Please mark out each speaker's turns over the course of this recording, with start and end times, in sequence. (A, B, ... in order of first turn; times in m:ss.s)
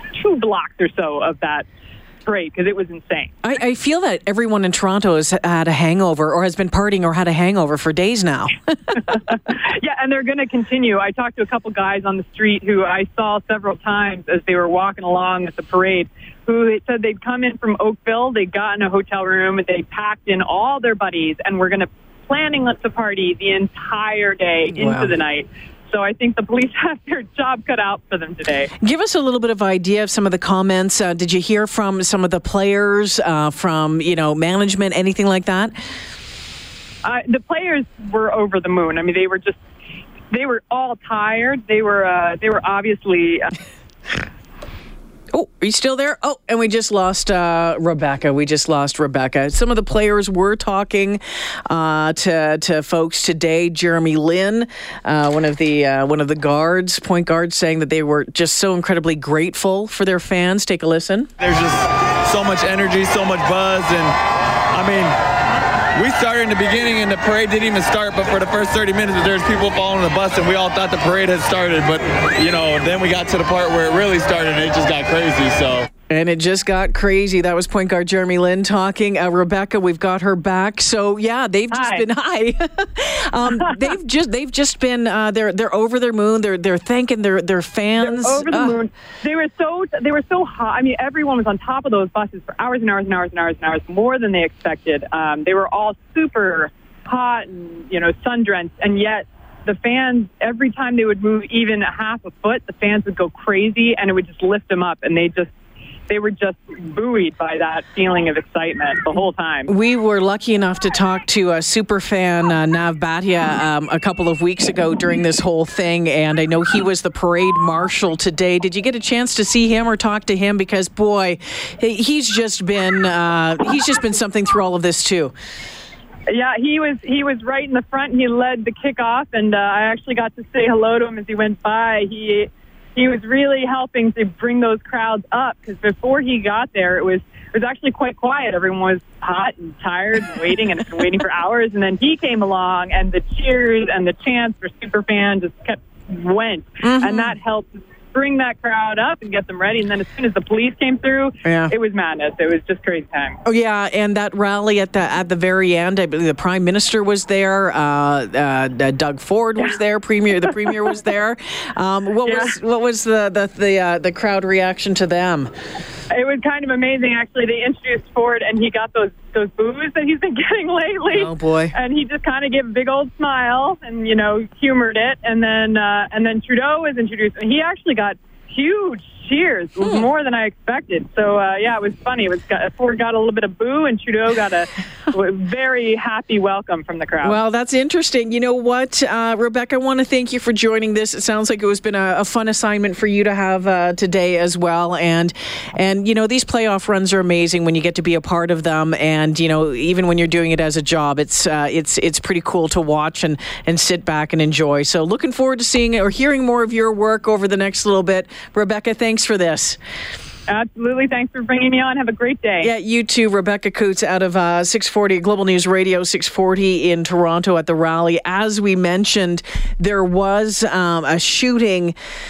0:00.1-0:01.7 A
0:02.2-0:03.3 A
0:03.4-0:09.2 B
0:09.5-0:28.7 A
0:24.7-0:25.1 B
0:28.8-0:35.7 B
0:37.0-0:39.6 A
0:40.3-0:43.5 A
0:45.3-1:01.3 B
1:01.4-1:04.1 C
1:04.7-1:05.1 C
1:06.0-1:15.9 C
1:16.1-1:28.8 B
1:21.7-1:22.0 A
1:28.0-1:45.5 A
1:46.1-1:49.7 A
1:49.7-2:05.3 B
2:06.3-2:33.4 A
2:26.8-2:27.3 B
2:31.4-2:31.7 B
2:33.5-2:45.5 B
2:42.2-2:42.5 A
2:46.1-3:07.4 A
2:51.1-2:51.7 B
2:59.8-3:00.1 B
3:07.2-3:29.8 B
3:30.5-3:32.7 A
3:32.6-3:41.9 B